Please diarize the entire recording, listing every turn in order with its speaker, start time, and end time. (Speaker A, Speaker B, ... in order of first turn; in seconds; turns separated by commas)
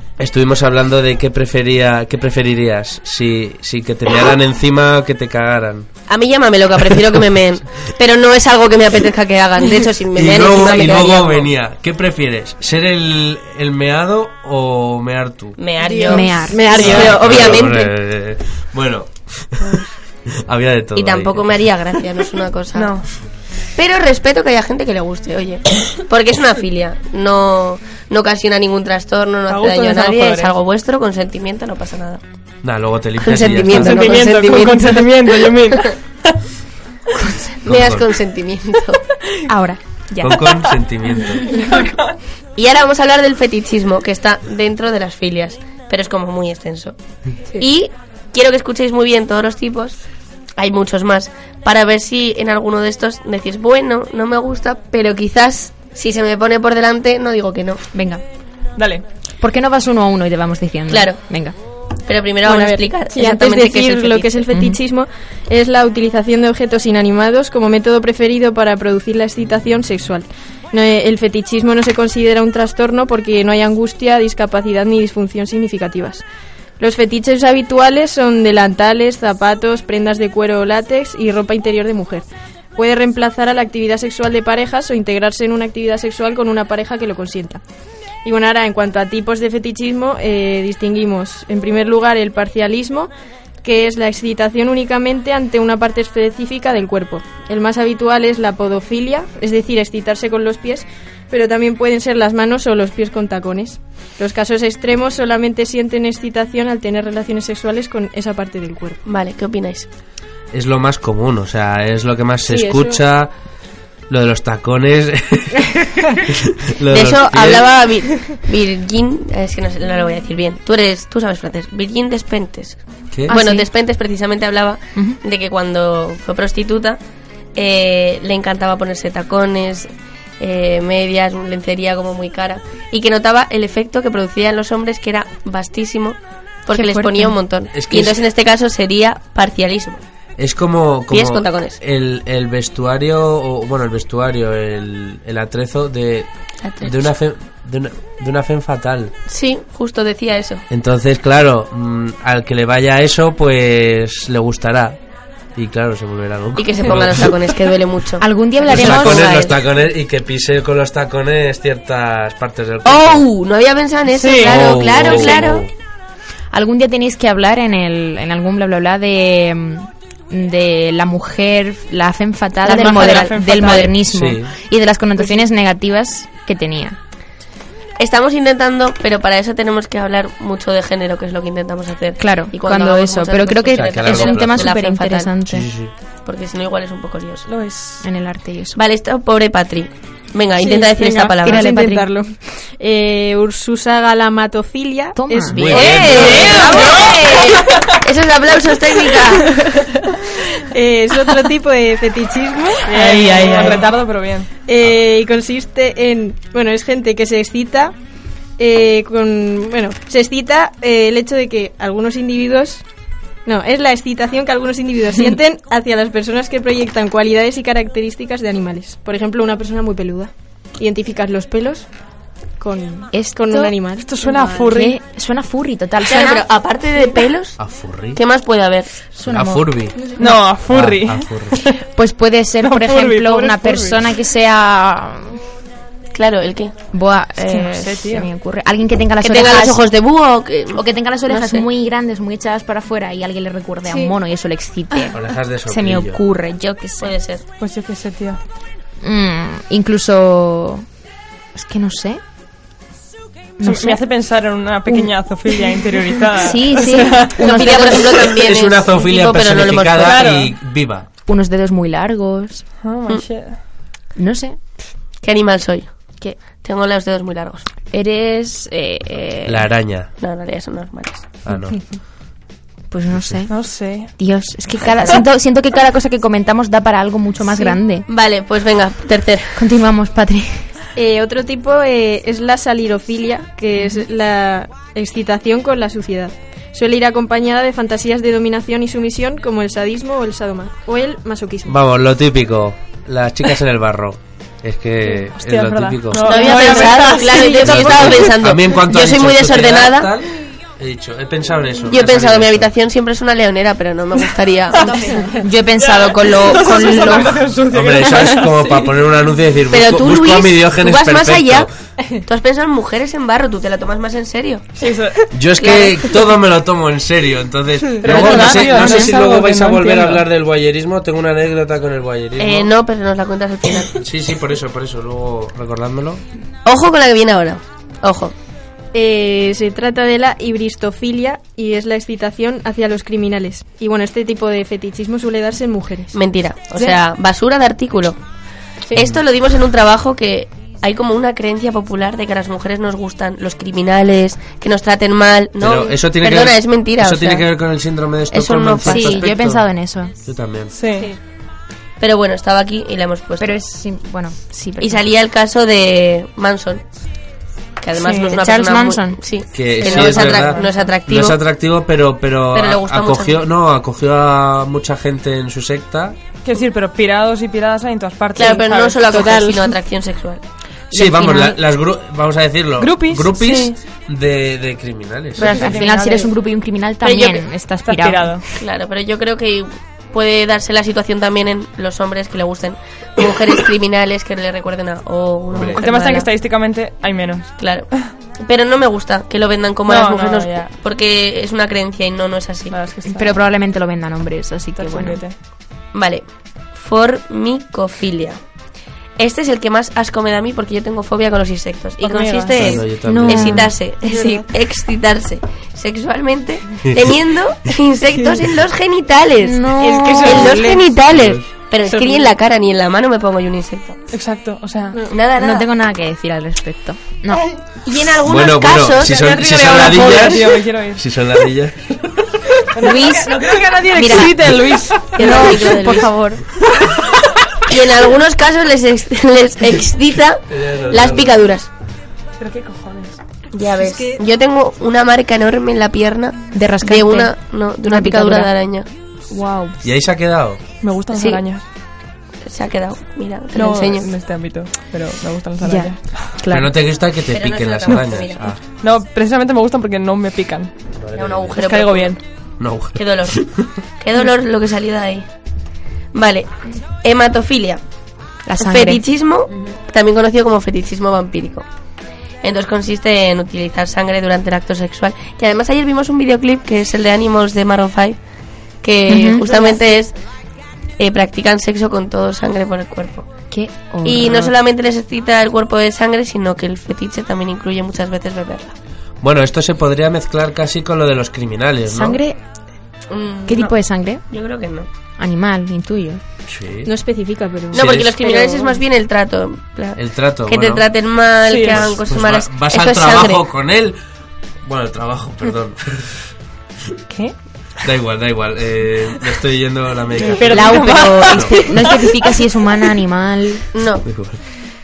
Speaker A: 0.2-5.9, Speaker B: 6.1-11.5, Speaker A: 10.1-15.6, Speaker B: 15.6-17.9, Speaker C: 15.9-17.1, Speaker D: 16.1-17.1, Speaker A: 16.7-19.7, Speaker A: 20.4-21.5, Speaker B: 20.9-23.0, Speaker E: 22.7-23.0, Speaker B: 23.8-32.2, Speaker E: 29.5-30.6, Speaker A: 32.6-34.2, Speaker B: 33.2-35.0, Speaker E: 33.7-35.9, Speaker B: 37.3-39.0, Speaker A: 37.6-38.0, Speaker D: 39.5-39.8, Speaker A: 40.2-41.5, Speaker E: 41.5-42.1, Speaker B: 42.5-47.0, Speaker B: 47.6-50.0, Speaker B: 50.6-57.8, Speaker D: 57.9-58.2, Speaker E: 58.8-59.0, Speaker D: 59.4-61.5, Speaker B: 60.9-61.3, Speaker B: 62.0-64.5, Speaker C: 62.4-76.2, Speaker D: 64.5-64.8, Speaker C: 76.8-87.6, Speaker C: 88.2-93.1, Speaker C: 93.6-109.0, Speaker B: 109.0-109.9, Speaker A: 110.5-113.3, Speaker C: 112.5-113.0, Speaker A: 114.1-115.7, Speaker A: 116.3-117.7, Speaker B: 116.9-127.0, Speaker D: 123.3-123.7, Speaker B: 127.5-140.0, Speaker D: 136.7-137.3, Speaker A: 137.7-138.2, Speaker A: 140.4-146.3, Speaker B: 141.1-141.8, Speaker B: 146.6-147.0, Speaker A: 146.8-149.1, Speaker B: 149.3-150.6, Speaker A: 150.7-155.0, Speaker A: 155.6-157.3, Speaker B: 156.6-159.6, Speaker D: 158.2-159.5, Speaker A: 158.7-163.2, Speaker B: 162.8-165.6, Speaker E: 164.1-164.7, Speaker A: 164.4-165.7, Speaker D: 166.5-177.0, Speaker B: 172.6-173.9, Speaker E: 172.7-173.9, Speaker A: 174.1-174.5, Speaker B: 178.0-185.3, Speaker D: 182.2-185.7, Speaker A: 183.7-184.7, Speaker A: 185.5-185.9, Speaker B: 186.2-187.5, Speaker E: 187.4-188.0, Speaker D: 188.0-188.8, Speaker B: 188.7-191.7, Speaker C: 190.6-196.1, Speaker D: 191.4-192.1, Speaker D: 195.1-196.0, Speaker A: 195.5-196.7, Speaker B: 195.5-199.6, Speaker E: 196.1-197.6, Speaker C: 196.7-197.0, Speaker C: 200.7-203.8, Speaker E: 202.8-204.5, Speaker B: 203.2-203.7, Speaker C: 204.7-207.9, Speaker C: 208.6-212.8, Speaker C: 213.4-221.9, Speaker C: 222.6-224.1, Speaker D: 223.1-223.8, Speaker E: 224.0-225.0, Speaker D: 224.5-226.4, Speaker B: 226.0-227.6, Speaker A: 227.6-228.2, Speaker B: 228.2-228.9, Speaker D: 229.1-229.7, Speaker A: 229.2-230.0, Speaker E: 230.2-231.7, Speaker A: 230.7-231.6, Speaker D: 231.9-235.4, Speaker E: 232.6-234.0, Speaker B: 236.1-236.7, Speaker D: 236.9-239.8, Speaker E: 237.4-238.3, Speaker B: 239.2-241.7, Speaker D: 240.7-245.2, Speaker A: 245.1-246.2, Speaker D: 245.7-247.1, Speaker B: 247.0-247.4, Speaker E: 247.6-248.4, Speaker D: 249.0-250.8, Speaker D: 251.5-252.2, Speaker D: 253.6-254.0, Speaker E: 253.6-257.9, Speaker D: 254.9-255.1, Speaker D: 256.4-258.1, Speaker B: 257.4-260.3, Speaker A: 258.4-261.1, Speaker E: 260.0-260.5, Speaker D: 261.2-262.6, Speaker E: 262.8-263.6, Speaker D: 264.1-264.6, Speaker B: 265.2-267.6, Speaker D: 267.9-269.7, Speaker A: 269.4-270.1, Speaker B: 270.2-271.3, Speaker A: 271.4-271.8, Speaker D: 272.9-278.1, Speaker A: 273.1-273.4, Speaker E: 273.5-274.1, Speaker B: 274.8-275.2, Speaker B: 278.1-279.6, Speaker D: 279.6-280.7, Speaker C: 280.9-291.7, Speaker D: 283.8-284.0, Speaker A: 291.6-296.4, Speaker E: 295.3-298.0, Speaker B: 296.2-300.1, Speaker C: 296.4-297.6, Speaker A: 297.5-302.7, Speaker B: 301.9-305.2, Speaker E: 304.7-305.1, Speaker D: 305.4-307.3, Speaker E: 305.8-308.8, Speaker B: 306.7-307.4, Speaker A: 307.7-311.7, Speaker B: 309.7-311.7, Speaker B: 312.2-314.7, Speaker E: 314.8-315.2, Speaker A: 315.3-322.7, Speaker B: 315.6-316.1, Speaker E: 318.0-320.2, Speaker B: 322.4-324.0, Speaker A: 324.0-326.2, Speaker B: 326.6-328.3, Speaker C: 328.9-336.1, Speaker B: 336.1-338.2, Speaker B: 338.9-347.4, Speaker A: 338.9-339.2, Speaker A: 345.6-349.7, Speaker B: 348.3-349.2, Speaker D: 348.8-350.1, Speaker A: 350.2-350.7, Speaker E: 350.7-351.1, Speaker B: 352.0-353.6, Speaker D: 353.4-355.1, Speaker B: 354.8-356.8, Speaker B: 357.8-361.4, Speaker E: 358.0-358.4, Speaker D: 358.4-359.2, Speaker A: 359.5-366.1, Speaker E: 359.8-360.7, Speaker B: 362.5-363.4, Speaker E: 366.4-369.0, Speaker B: 368.4-370.4, Speaker C: 369.1-369.6, Speaker D: 370.9-371.6, Speaker A: 370.9-375.6, Speaker E: 372.8-373.7, Speaker E: 375.4-376.3, Speaker D: 375.4-378.4, Speaker E: 377.8-378.4, Speaker B: 378.5-386.3, Speaker A: 385.5-385.8, Speaker E: 385.7-388.0, Speaker B: 387.6-392.8, Speaker E: 389.9-390.8, Speaker E: 392.7-393.4, Speaker D: 393.1-395.2, Speaker E: 394.8-395.3, Speaker B: 395.9-398.4, Speaker B: 399.2-414.0, Speaker E: 402.0-402.8, Speaker A: 402.5-403.7, Speaker D: 403.1-403.7, Speaker C: 404.1-404.3, Speaker A: 406.9-407.1, Speaker D: 409.4-410.7, Speaker C: 409.8-410.6, Speaker A: 411.0-411.5, Speaker E: 414.1-415.0, Speaker B: 415.1-415.7, Speaker D: 415.3-417.4, Speaker B: 417.8-419.2, Speaker A: 418.2-421.9, Speaker E: 419.0-421.0, Speaker B: 419.7-420.3, Speaker E: 422.8-426.0, Speaker D: 422.8-424.3, Speaker B: 425.0-426.4, Speaker B: 427.7-431.7, Speaker A: 430.5-431.4, Speaker E: 432.4-433.2, Speaker B: 433.5-438.9, Speaker C: 433.8-434.2, Speaker D: 436.5-438.5, Speaker A: 439.8-440.6, Speaker E: 440.8-441.6, Speaker B: 441.1-441.4, Speaker B: 442.4-444.1, Speaker E: 443.5-446.3, Speaker D: 445.6-446.7, Speaker A: 446.5-448.6, Speaker B: 447.3-448.5, Speaker E: 448.8-450.7, Speaker A: 451.0-451.6, Speaker B: 451.1-452.2, Speaker E: 451.6-452.2, Speaker A: 452.6-453.7, Speaker B: 452.9-453.4, Speaker B: 454.0-455.2, Speaker B: 456.1-457.8, Speaker D: 458.4-459.0, Speaker B: 458.6-461.6, Speaker B: 462.4-468.2, Speaker B: 468.8-470.1, Speaker D: 469.1-469.6, Speaker B: 471.0-473.3, Speaker D: 473.5-474.5, Speaker B: 474.0-478.7, Speaker A: 479.2-482.2, Speaker D: 481.9-482.4, Speaker B: 483.1-483.8, Speaker D: 483.5-484.2, Speaker B: 484.3-484.9, Speaker D: 485.2-486.2, Speaker A: 486.5-486.9, Speaker C: 486.9-488.5, Speaker A: 487.7-488.2, Speaker B: 487.7-493.4, Speaker A: 490.0-490.9, Speaker E: 491.5-491.9, Speaker A: 491.7-493.9, Speaker A: 494.6-496.2, Speaker A: 497.8-501.6, Speaker E: 500.2-501.8, Speaker D: 500.5-503.6, Speaker B: 503.7-504.1, Speaker A: 504.1-504.4